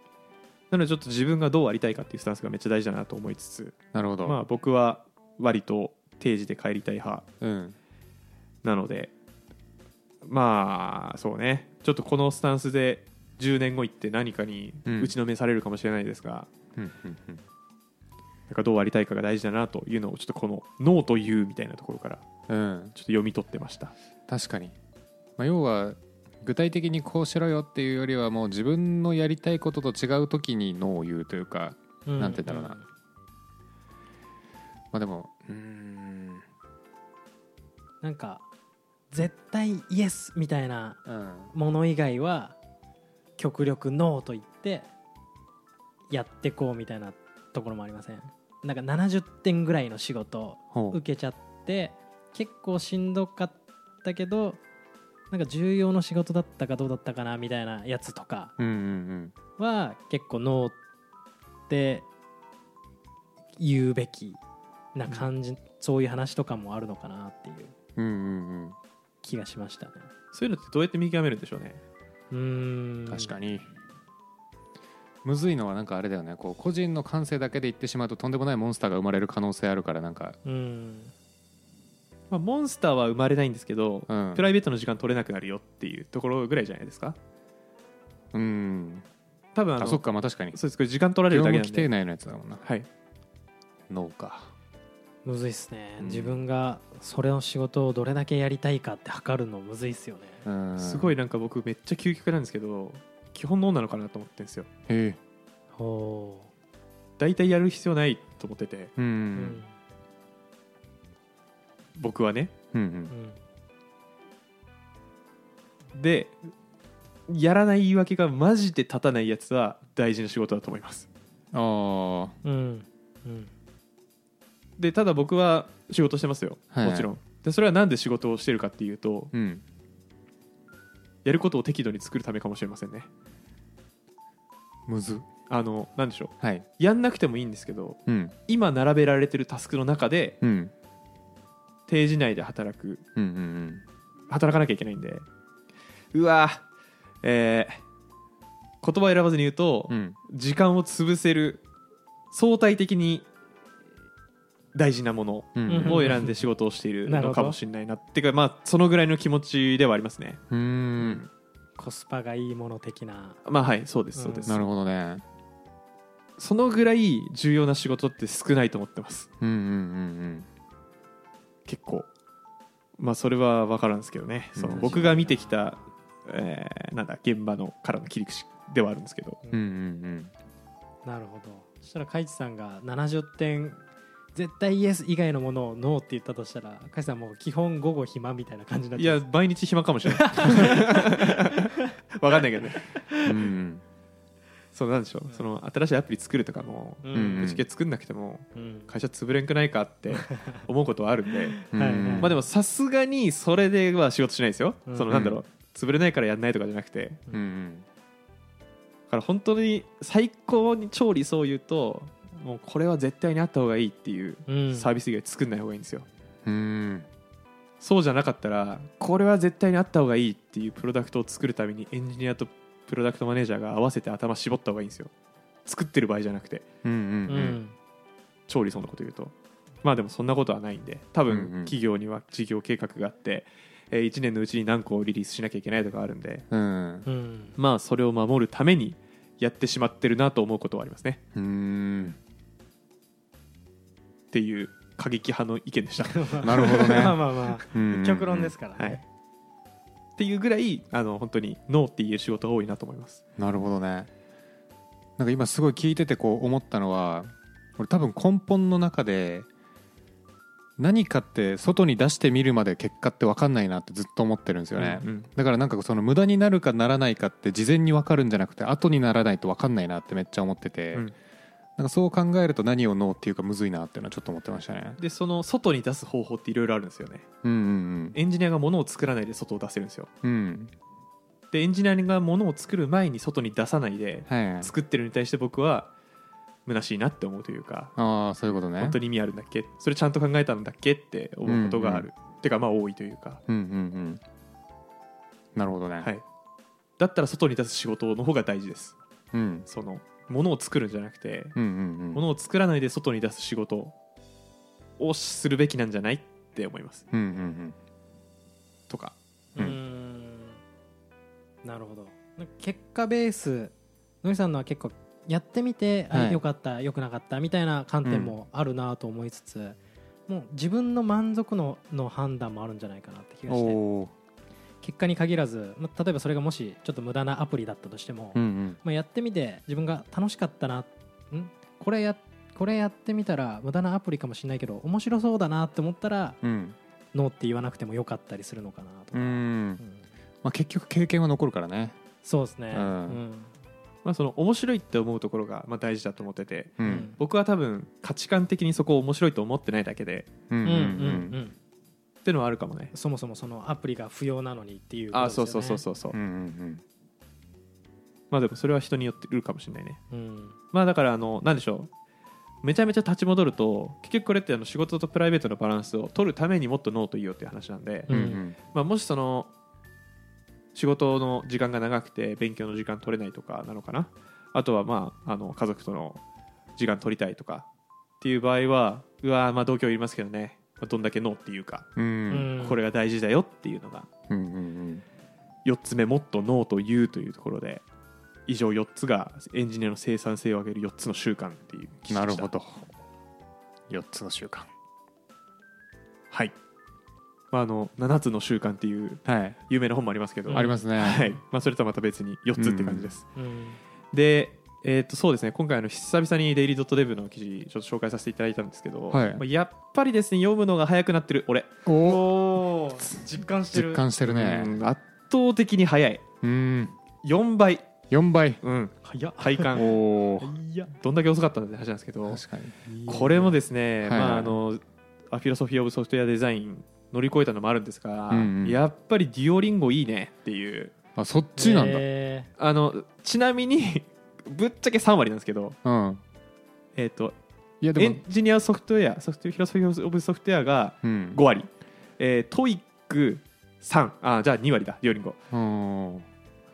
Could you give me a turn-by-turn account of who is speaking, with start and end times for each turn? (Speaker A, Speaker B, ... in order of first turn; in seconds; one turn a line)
Speaker A: 0.7-7.2
Speaker B: 3.9-4.4
Speaker B: 7.4-7.8
Speaker A: 8.6-9.1
Speaker A: 10.2-16.5
Speaker B: 14.8-15.1
Speaker B: 16.7-17.4
Speaker A: 18.5-22.2
Speaker B: 22.5-22.9
Speaker A: 22.9-23.9
Speaker B: 24.3-24.7
Speaker B: 25.4-32.8
Speaker C: 32.0-32.8
Speaker B: 34.9-36.4
Speaker C: 38.0-38.4
Speaker C: 39.1-42.6
Speaker B: 41.0-41.5
Speaker C: 43.4-44.9
Speaker C: 46.1-54.6
Speaker B: 50.7-51.0
Speaker C: 55.3-58.5
Speaker B: 58.6-59.3
Speaker C: 59.6-60.7
Speaker C: 61.7-62.0
Speaker C: 63.6-64.4
Speaker C: 64.9-67.7
Speaker B: 68.0-68.8
Speaker C: 69.2-70.1
Speaker A: 70.3-71.8
Speaker C: 72.3-73.3
Speaker B: 73.1-73.7
Speaker B: 75.2-80.4
Speaker C: 80.4-81.1
Speaker A: 82.3-87.2
Speaker B: 84.1-84.5
Speaker B: 88.3-89.0
Speaker A: 89.5-91.9
Speaker B: 89.8-90.6
Speaker B: 91.3-92.6
Speaker B: 93.9-94.5
Speaker C: 95.2-100.4
Speaker B: 96.0-96.4
Speaker B: 100.4-101.1
Speaker A: 100.8-104.7
Speaker B: 104.9-105.2
Speaker C: 105.7-106.5
Speaker A: 107.2-108.9
Speaker B: 109.0-109.6
Speaker C: 109.3-109.7
Speaker A: 112.0-112.5
Speaker B: 112.7-113.1
Speaker C: 113.1-113.4
Speaker A: 115.9-116.4
Speaker A: 117.3-121.1
Speaker B: 121.5-122.3
Speaker C: 122.4-123.5
Speaker A: 124.8-129.3
Speaker B: 126.7-127.1
Speaker B: 129.3-129.6
Speaker A: 131.2-133.1
Speaker B: 134.9-135.2
Speaker A: 135.5-140.4
Speaker B: 136.4-136.7
Speaker B: 138.1-138.3
Speaker B: 140.4-140.7
Speaker A: 141.9-143.0
Speaker B: 143.1-143.8
Speaker A: 144.3-145.2
Speaker A: 146.1-146.6
Speaker A: 147.2-147.8
Speaker A: 148.8-151.6
Speaker B: 149.9-150.2
Speaker A: 152.3-153.2
Speaker A: 154.7-160.4
Speaker B: 155.5-156.2
Speaker C: 155.7-156.4
Speaker C: 157.1-157.6
Speaker B: 160.5-161.2
Speaker C: 161.8-163.4
Speaker A: 163.4-164.6
Speaker C: 164.2-164.6
Speaker B: 164.5-165.2
Speaker A: 166.4-169.3
Speaker B: 169.4-170.5
Speaker A: 171.7-172.1
Speaker A: 173.0-179.4
Speaker B: 174.6-175.1
Speaker C: 174.7-175.6
Speaker B: 179.5-180.3
Speaker C: 181.0-183.8
Speaker C: 184.3-189.2
Speaker A: 189.0-192.9
Speaker C: 190.1-191.9
Speaker C: 192.8-193.5
Speaker B: 193.2-193.8
Speaker A: 194.7-201.6
Speaker C: 197.0-197.5
Speaker B: 197.1-197.6
Speaker C: 198.5-198.9
Speaker C: 200.3-200.6
Speaker C: 201.6-202.4
Speaker B: 201.7-202.4
Speaker A: 202.2-207.2
Speaker C: 204.9-205.2
Speaker B: 205.1-205.4
Speaker B: 207.3-207.8
Speaker A: 209.1-216.1
Speaker C: 214.5-214.9
Speaker B: 216.4-217.1
Speaker A: 217.8-225.1
Speaker A: 225.7-226.7
Speaker B: 226.8-227.6
Speaker C: 227.3-227.7
Speaker A: 228.5-229.3
Speaker A: 229.8-236.4
Speaker B: 231.3-231.7
Speaker B: 236.5-237.1
Speaker C: 237.0-237.6
Speaker A: 237.6-241.2
Speaker B: 241.3-242.2
Speaker A: 244.3-247.0
Speaker C: 246.1-249.0
Speaker B: 246.4-248.5
Speaker A: 250.2-253.2
Speaker B: 253.4-254.1
Speaker B: 255.2-259.5
Speaker B: 260.8-271.1
Speaker A: 264.7-265.3
Speaker B: 271.8-275.0
Speaker A: 275.0-277.3
Speaker B: 277.4-278.2
Speaker A: 278.1-280.1
Speaker B: 280.2-280.7
Speaker A: 281.5-285.9
Speaker B: 284.3-284.7
Speaker A: 286.6-287.9
Speaker B: 287.9-289.0
Speaker A: 288.8-293.4
Speaker B: 291.4-292.1
Speaker B: 293.5-294.2
Speaker B: 295.5-296.1
Speaker A: 297.0-298.9
Speaker B: 299.3-299.7
Speaker A: 299.7-301.6
Speaker B: 301.5-302.2
Speaker A: 302.1-303.9
Speaker A: 305.0-307.0
Speaker B: 307.1-307.8
Speaker A: 308.9-309.1
Speaker C: 309.5-310.6
Speaker C: 311.6-323.8
Speaker B: 316.1-316.4
Speaker B: 318.0-318.3
Speaker B: 323.5-324.1
Speaker C: 324.8-336.4
Speaker B: 328.3-328.8
Speaker B: 336.4-336.8
Speaker C: 337.1-340.0
Speaker B: 339.1-339.8
Speaker B: 340.4-341.9
Speaker C: 342.2-343.5
Speaker B: 342.7-343.2
Speaker A: 344.0-350.3
Speaker B: 346.8-347.1
Speaker C: 346.8-347.1
Speaker B: 350.5-351.4
Speaker C: 350.6-351.5
Speaker A: 352.2-352.9
Speaker C: 352.9-355.8
Speaker A: 355.1-356.2
Speaker B: 356.1-356.8
Speaker A: 358.3-360.0
Speaker C: 360.1-360.6
Speaker A: 360.7-361.9
Speaker A: 362.6-368.1
Speaker C: 368.1-368.4
Speaker B: 368.1-368.6
Speaker A: 368.6-369.5
Speaker A: 370.7-376.2
Speaker A: 376.8-377.7
Speaker A: 378.2-381.9
Speaker B: 381.9-382.5
Speaker C: 382.3-382.8
Speaker A: 382.6-384.1
Speaker B: 384.3-385.0
Speaker A: 385.6-387.8
Speaker A: 388.5-392.5
Speaker B: 392.1-392.8
Speaker B: 393.9-394.7
Speaker A: 397.5-403.2
Speaker B: 399.2-399.6
Speaker C: 400.5-400.8
Speaker B: 400.5-401.2
Speaker B: 402.6-403.1
Speaker C: 403.3-403.8
Speaker A: 404.1-411.7
Speaker B: 409.1-409.4
Speaker B: 411.8-412.3
Speaker C: 412.0-414.1
Speaker B: 413.7-414.8
Speaker A: 414.2-416.2
Speaker B: 416.4-417.0
Speaker A: 417.2-417.9
Speaker B: 418.1-418.6
Speaker A: 418.6-420.0
Speaker C: 419.0-419.7
Speaker B: 419.7-420.6
Speaker C: 420.5-420.9
Speaker A: 420.9-422.4
Speaker B: 422.2-422.8
Speaker C: 422.9-423.5
Speaker A: 423.1-430.9
Speaker B: 424.0-424.6
Speaker B: 428.3-428.8
Speaker B: 431.1-432.0
Speaker C: 431.6-432.5
Speaker A: 432.6-435.8
Speaker B: 435.8-436.2
Speaker A: 436.9-437.4
Speaker B: 437.8-438.2
Speaker A: 437.9-445.4
Speaker B: 441.0-441.4
Speaker B: 445.5-446.2